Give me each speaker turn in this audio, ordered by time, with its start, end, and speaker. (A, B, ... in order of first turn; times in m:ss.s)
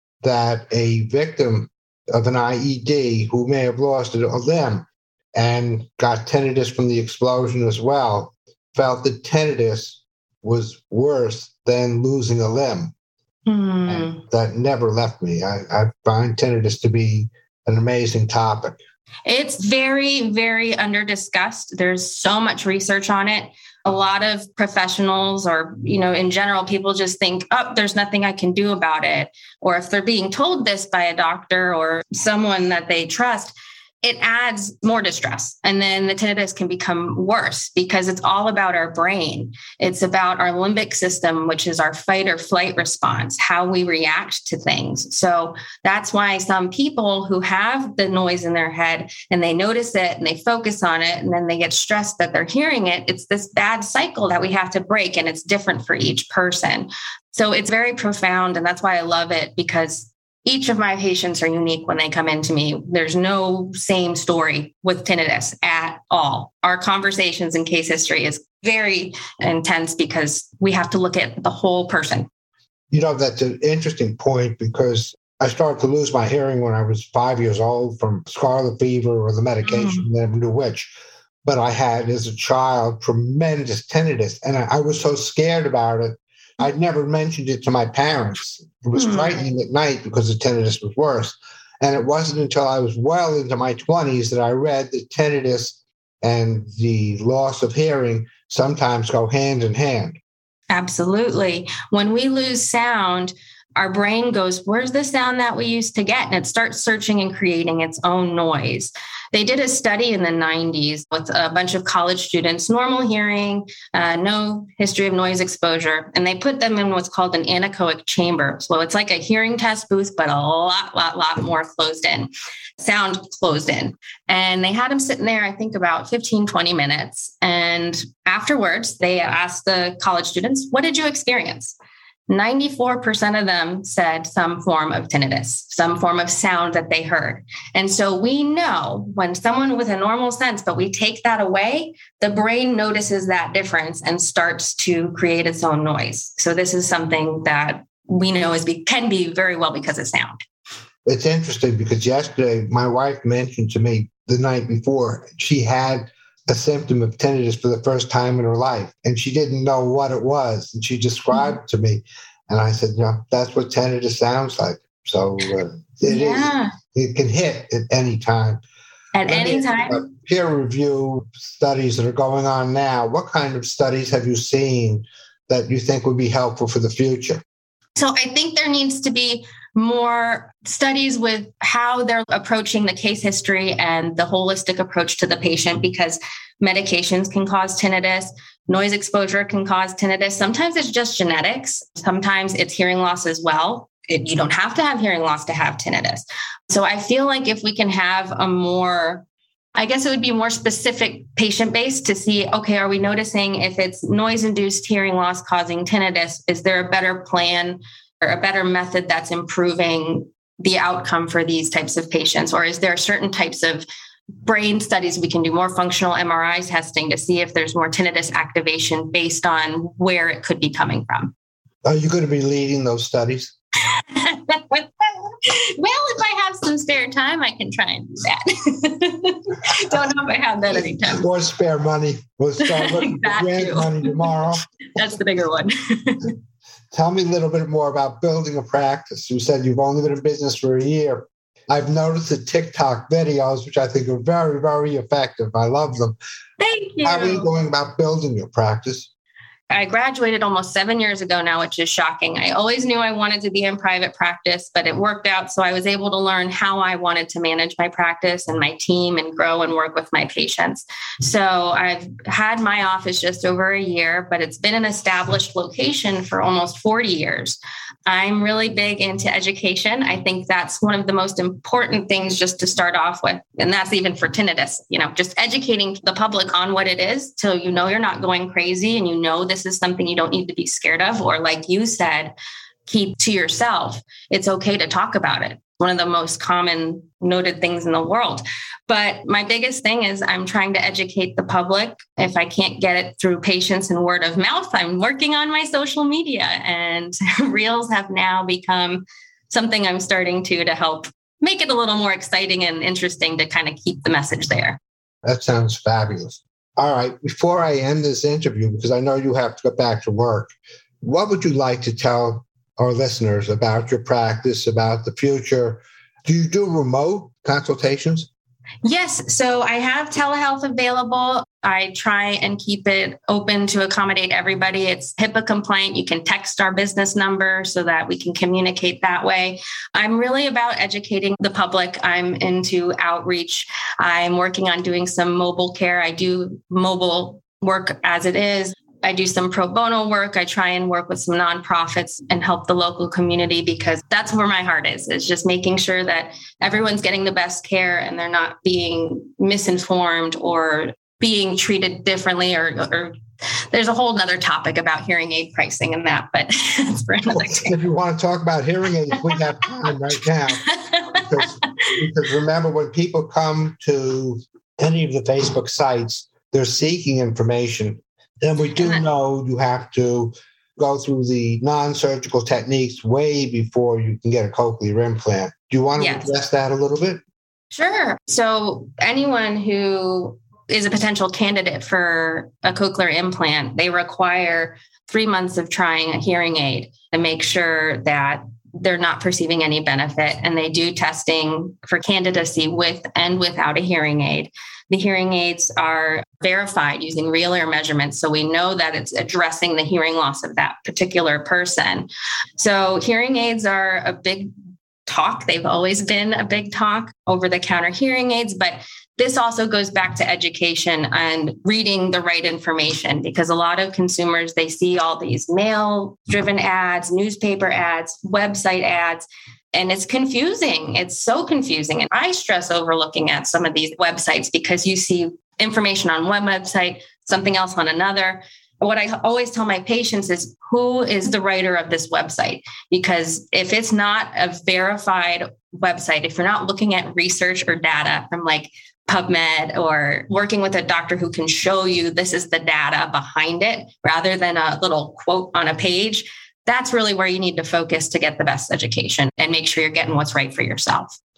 0:00.2-0:12.9 A
0:13.5-0:14.2 B
0:13.9-0:18.8 A
0:19.3-1:12.3 B
1:12.9-1:20.9 A
1:19.7-1:20.0 B
1:21.4-1:40.2 A
1:29.0-1:29.4 B
1:40.7-2:11.8 B
2:12.3-2:30.4 B
2:31.0-2:48.6 A
2:46.1-2:46.7 B
2:49.1-2:50.0 B
2:49.3-2:57.4 A
2:58.0-3:19.2 B
3:19.8-3:33.8 B
3:34.4-3:41.3 B
3:41.8-3:43.5 A
3:43.9-3:51.2 B
3:50.7-3:54.6 A
3:52.6-3:54.4 B
3:55.0-3:56.3 B
3:56.9-4:06.2 A
4:06.6-4:07.5 B
4:07.0-4:09.1 A
4:09.7-4:42.4 B
4:42.9-5:04.8 B
5:05.2-5:18.3 A
5:18.8-5:53.1 B
5:53.7-5:57.8 B
5:57.3-6:00.6 A
6:00.5-6:02.0 B
6:01.2-6:17.2 A
6:08.8-6:09.0 B
6:16.0-6:16.4 B
6:17.7-6:44.5 B
6:45.1-7:31.2 B